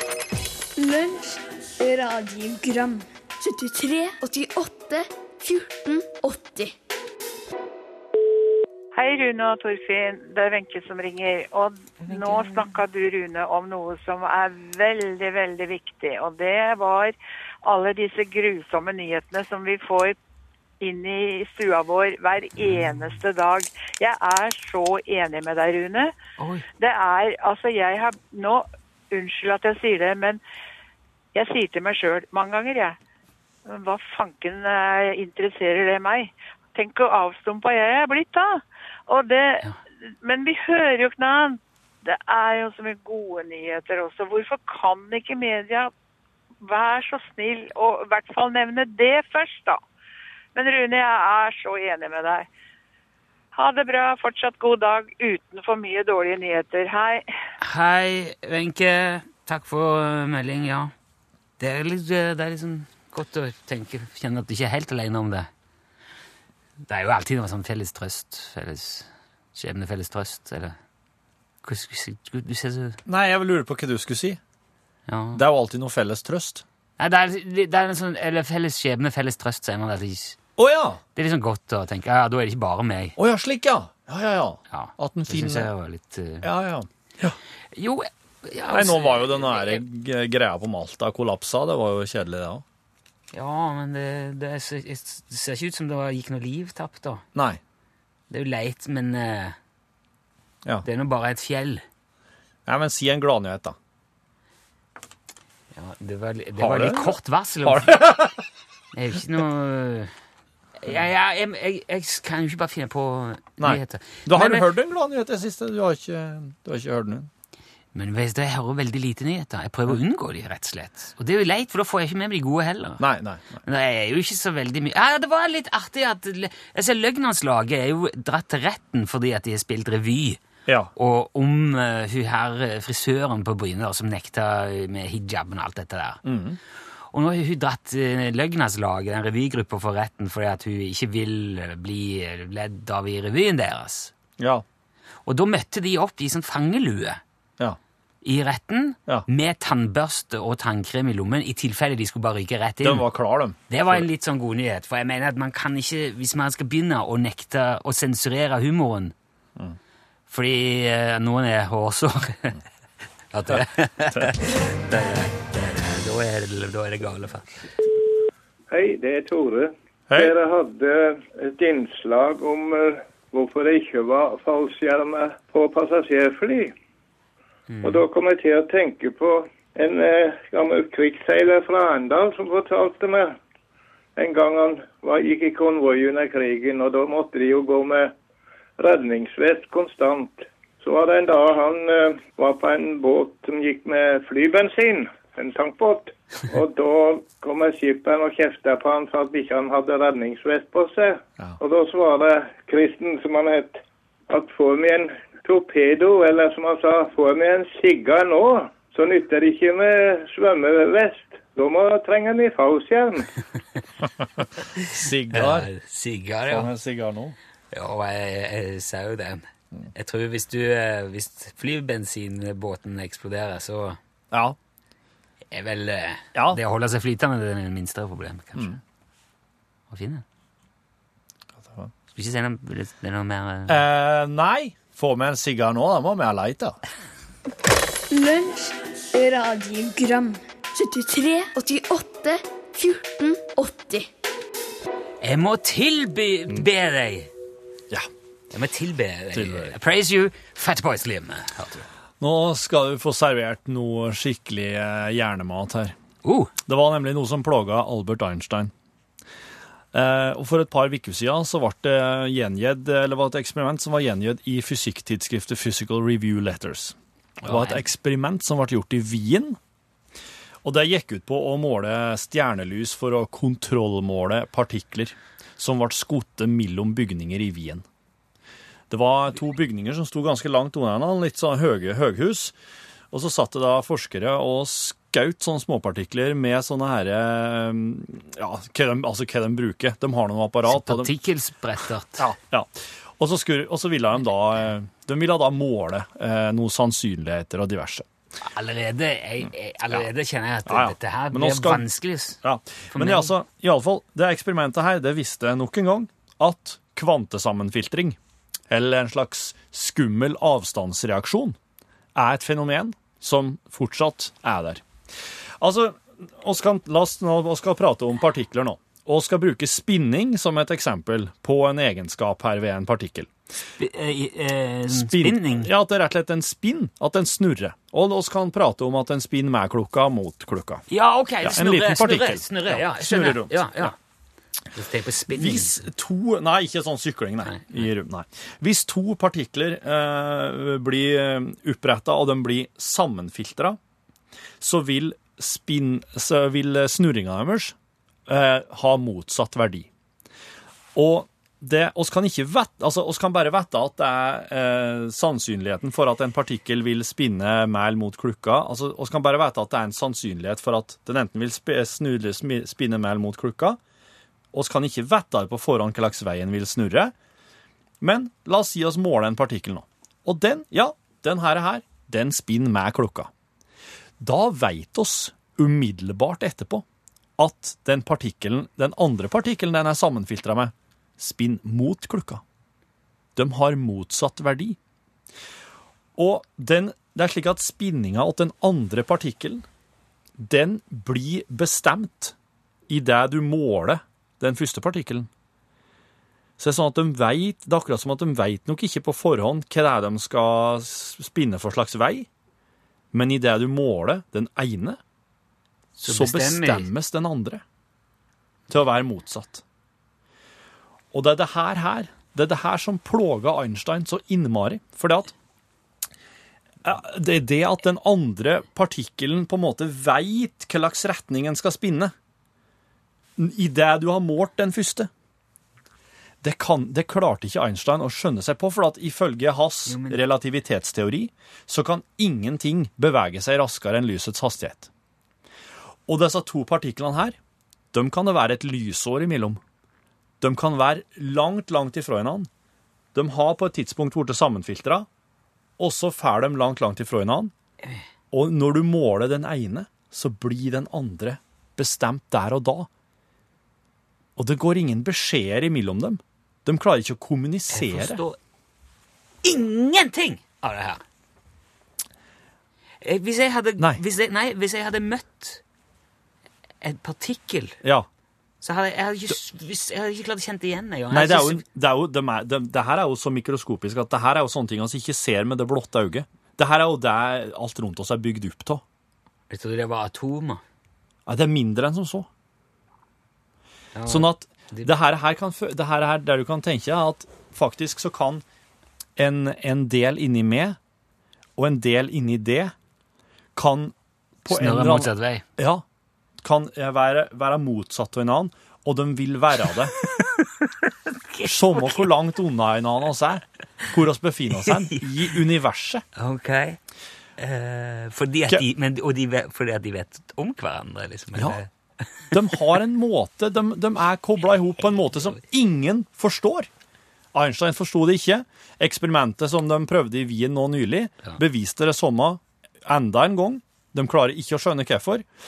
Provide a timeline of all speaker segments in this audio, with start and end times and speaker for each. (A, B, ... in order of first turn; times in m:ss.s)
0:00.8-0:06.7 A
0:08.9-0:20.2 B
0:20.8-0:26.1 B
0:26.4-0:26.6 C
0:26.8-0:30.4 B
0:31.3-0:33.0 B
0:33.6-0:39.6 B
0:40.2-0:45.9 B
0:46.6-0:49.8 B
0:50.5-0:52.5 B
0:53.5-0:57.2 B
0:57.6-1:00.9 C
1:01.6-1:05.5 C
1:06.9-1:10.8 C
1:11.6-1:13.0 C
1:13.0-1:14.4 D
1:15.1-1:15.4 C
1:15.3-1:16.6 D
1:17.0-1:20.4 C
1:20.6-1:21.0 D
1:21.2-1:23.2 C
1:23.2-1:25.7 D
1:24.7-1:26.5 C
1:26.4-1:27.4 D
1:27.7-1:29.8 C
1:28.7-1:32.6 D
1:33.3-1:37.2 C
1:37.3-1:37.6 D
1:38.3-1:39.6 C
1:40.8-1:41.8 C
1:42.6-1:43.8 D
1:45.7-1:48.0 C
1:46.6-1:48.4 D
1:48.9-1:50.1 C
1:50.8-1:54.7 C
1:53.6-1:57.3 D
1:57.9-2:03.0 C
2:03.0-2:03.6 D
2:03.6-2:10.4 C
2:11.0-2:16.2 C
2:16.2-2:16.6 D
2:17.1-2:24.1 C
2:24.4-2:24.6 D
2:25.2-2:27.2 C
2:28.2-2:33.1 C
2:32.8-2:34.1 D
2:33.7-2:39.1 C
2:40.3-2:42.6 C
2:43.3-2:47.5 C
2:48.7-2:56.7 E
2:50.1-2:50.3 D
2:57.7-2:58.0 C
2:57.8-3:03.4 E
3:04.2-3:08.1 E
3:08.8-3:33.3 E
3:34.8-3:35.7 D
3:35.3-3:36.7 C
3:36.5-3:37.4 D
3:37.7-3:44.0 C
3:44.3-3:44.6 D
3:45.5-3:48.8 C
3:46.3-3:46.6 D
3:49.9-3:50.2 C
3:51.6-3:51.9 D
3:52.1-3:53.8 C
3:53.7-3:56.8 D
3:58.1-4:04.1 A
4:05.2-4:07.3 C
4:08.5-4:11.8 C
4:09.3-4:09.7 D
4:12.2-4:15.9 D
4:16.2-4:16.5 C
4:16.7-4:18.7 D
4:19.9-4:29.6 D
4:27.4-4:27.8 C
4:30.6-4:37.8 D
4:38.9-4:42.5 D
4:43.1-4:51.1 D
4:50.6-4:52.3 C
4:52.2-4:58.1 D
4:58.4-5:02.4 C
5:00.6-5:01.9 D
5:02.4-5:08.2 D
5:02.9-5:03.3 C
5:08.7-5:11.6 D
5:12.1-5:14.8 D
5:15.6-5:23.3 D
5:23.8-5:25.7 C
5:24.9-5:30.8 D
5:30.9-5:34.0 C
5:31.4-5:33.9 D
5:34.7-5:35.8 C
5:35.3-5:43.8 D
5:37.4-5:37.9 C
5:44.6-5:47.7 D
5:48.3-5:49.9 D
5:50.9-6:03.8 D
6:04.5-6:07.1 D
6:08.0-6:13.3 D
6:14.2-6:16.8 D
6:17.4-6:22.4 D
6:23.4-6:24.8 D
6:26.2-6:29.6 D
6:30.4-6:32.3 D
6:32.9-6:35.3 D
6:36.6-6:42.3 D
6:43.1-6:45.0 D
6:46.0-6:46.9 C
6:46.1-6:47.6 D
6:48.7-6:49.6 D
6:51.1-6:55.3 D
6:56.8-7:02.1 D
7:03.4-7:05.1 D
7:06.4-7:14.9 D
7:09.8-7:10.2 C
7:16.1-7:17.4 D
7:17.9-7:19.6 D
7:20.4-7:22.5 D
7:23.1-7:25.1 D
7:25.8-7:27.5 D
7:28.3-7:32.9 D
7:34.4-7:38.2 D
7:37.7-7:38.4 C
7:39.4-7:41.0 C
7:43.0-7:45.6 C
7:46.8-7:47.8 C
7:47.8-7:48.1 D
7:48.6-7:51.6 C
7:51.1-7:58.8 D
7:59.5-8:00.6 C
8:01.2-8:02.3 D
8:03.9-8:04.9 C
8:04.1-8:08.4 D
8:09.2-8:10.8 D
8:11.6-8:12.7 D
8:13.6-8:15.8 D
8:14.5-8:15.4 C
8:16.4-8:19.9 D
8:20.0-8:22.1 C
8:21.4-8:26.0 D
8:24.6-8:25.1 C
8:26.2-8:26.8 C
8:27.4-8:32.7 C
8:31.3-8:31.6 D
8:32.3-8:36.7 D
8:37.3-8:45.3 D